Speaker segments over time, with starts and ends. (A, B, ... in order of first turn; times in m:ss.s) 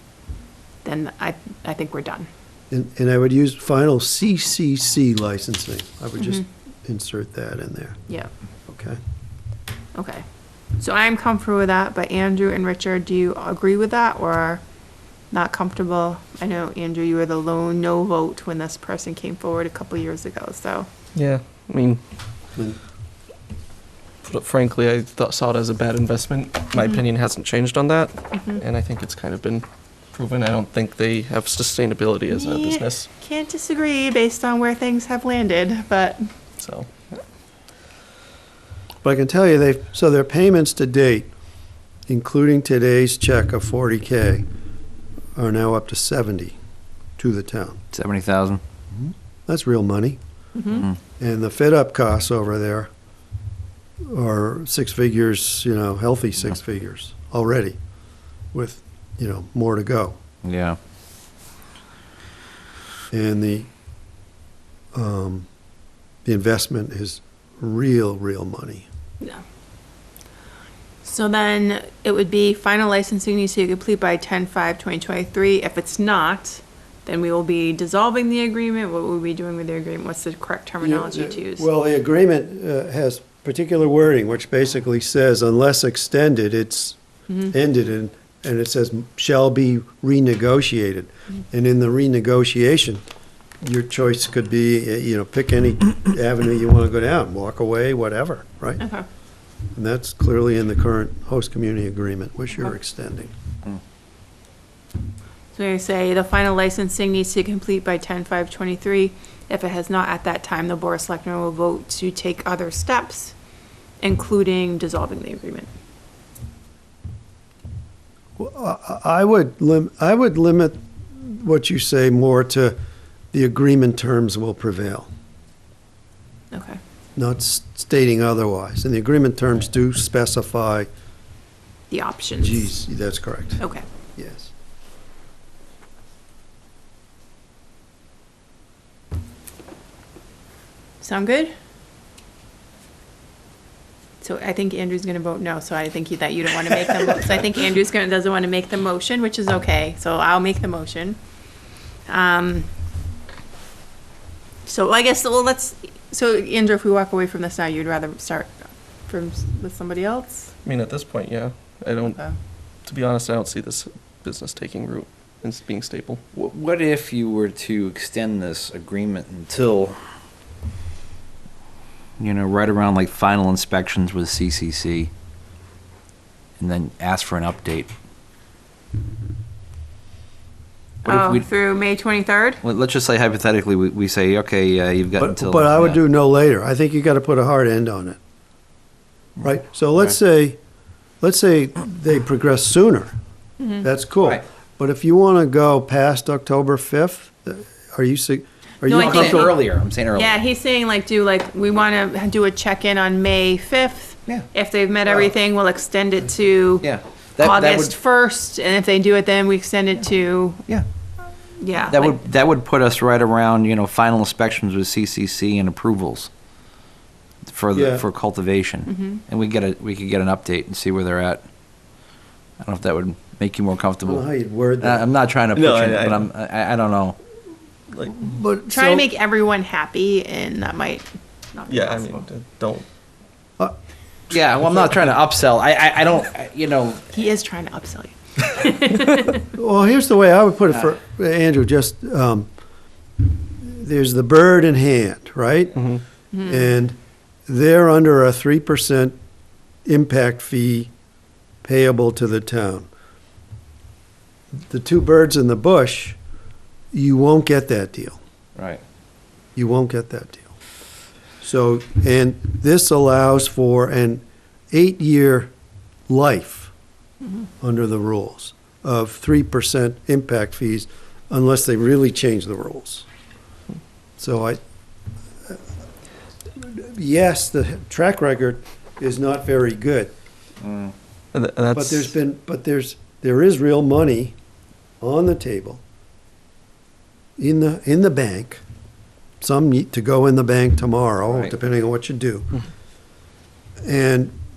0:00.8-0:02.3 A
0:02.7-0:08.0 B
0:08.7-0:09.0 B
0:10.0-0:10.2 A
0:10.8-0:14.6 A
0:15.3-0:20.9 A
0:21.2-0:22.0 C
0:24.2-0:33.1 C
0:32.3-0:36.3 A
0:36.6-0:36.9 C
0:39.0-0:41.3 B
0:42.1-0:44.4 B
0:45.4-0:46.6 B
0:47.2-0:47.8 B
0:47.9-0:48.6 D
0:48.9-0:50.2 B
0:50.6-0:50.8 A
0:51.2-0:52.9 B
0:54.1-0:57.8 B
0:58.5-1:00.2 B
1:00.4-1:00.8 D
1:03.1-1:03.7 B
1:04.9-1:05.5 B
1:06.2-1:08.9 B
1:11.0-1:21.7 A
1:20.8-1:33.0 B
1:33.6-1:38.8 B
1:38.8-1:39.1 A
1:39.8-1:43.3 B
1:45.5-1:53.4 A
1:54.0-1:55.7 A
1:58.4-2:02.8 B
2:03.3-2:05.1 B
2:06.5-2:06.8 A
2:07.2-2:10.9 B
2:11.9-2:12.7 A
2:12.4-2:13.6 B
2:13.6-2:13.8 A
2:14.2-2:14.5 B
2:21.0-2:21.5 A
2:24.2-2:31.2 A
2:32.1-2:32.7 A
2:34.7-2:40.5 A
2:40.6-2:42.3 C
2:42.8-2:46.2 C
2:46.3-2:50.0 D
2:52.2-2:55.1 D
2:56.6-2:57.9 D
3:01.0-3:01.5 D
3:01.0-3:02.6 A
3:02.6-3:06.0 D
3:05.2-3:08.2 B
3:09.4-3:10.6 B
3:11.2-3:13.1 B
3:13.8-3:19.6 B
3:18.8-3:19.6 A
3:18.9-3:20.4 D
3:20.1-3:30.6 A
3:26.8-3:28.0 D
3:31.6-3:32.2 A
3:31.9-3:36.3 D
3:37.5-3:41.4 D
3:37.7-3:38.0 B
3:38.9-3:39.2 A
3:42.6-3:44.2 D
3:44.0-3:45.0 B
3:44.8-3:47.2 D
3:45.6-3:46.3 C
3:47.9-3:48.2 C
3:48.1-3:49.1 B
3:48.7-3:52.2 A
3:51.7-3:52.9 C
3:54.3-3:57.0 D
3:57.1-3:59.4 A
3:59.5-4:02.5 B
4:03.6-4:05.8 B
4:05.8-4:06.0 C
4:06.3-4:06.7 A
4:06.4-4:09.2 B
4:09.9-4:10.9 B
4:11.6-4:12.9 B
4:14.6-4:16.2 B
4:16.9-4:18.2 B
4:18.6-4:18.8 D
4:19.6-4:20.5 B
4:21.4-4:25.5 B
4:26.1-4:26.7 B
4:27.6-4:33.1 B
4:34.2-4:34.6 B
4:36.6-4:40.1 B
4:40.6-4:40.9 D
4:41.3-4:42.1 C
4:41.7-4:44.4 B
4:45.0-4:45.8 B
4:47.4-4:48.6 B
4:49.4-4:52.5 B
4:53.8-4:54.3 B